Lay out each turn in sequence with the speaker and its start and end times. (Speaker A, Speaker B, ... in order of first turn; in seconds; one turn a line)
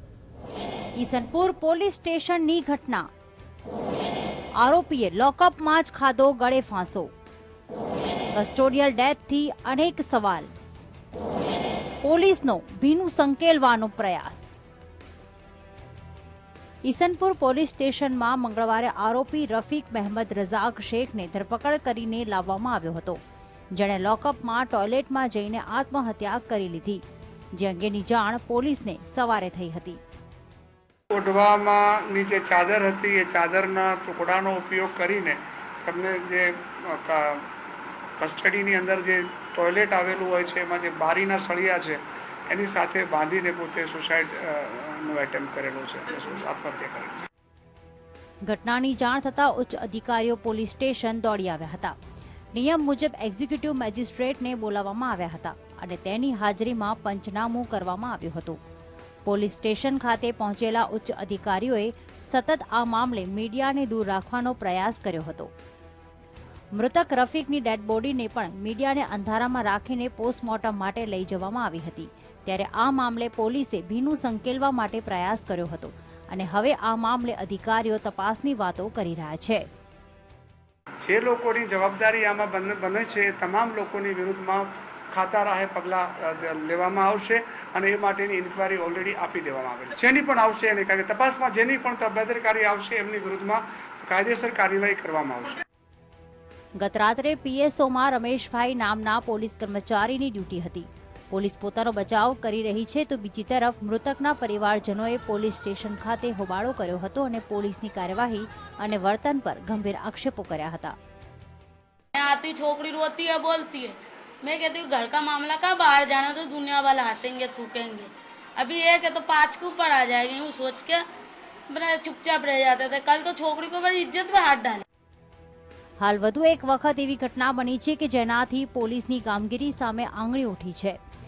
Speaker A: 1.0-3.1
Speaker A: 4.6-7.1
Speaker A: 8.3-10.5
Speaker A: 12.0-14.6
Speaker A: 16.8-23.2
Speaker A: 23.8-27.0
Speaker A: 27.6-30.0
Speaker B: 31.1-37.5
Speaker B: 38.2-47.3
Speaker A: 48.5-52.0
Speaker A: 52.5-58.6
Speaker A: 59.3-65.5
Speaker A: 66.8-79.7
Speaker B: 81.0-95.6
Speaker A: 96.8-111.0
Speaker C: 112.2-121.0
Speaker C: 121.7-124.8
Speaker A: 126.0-131.0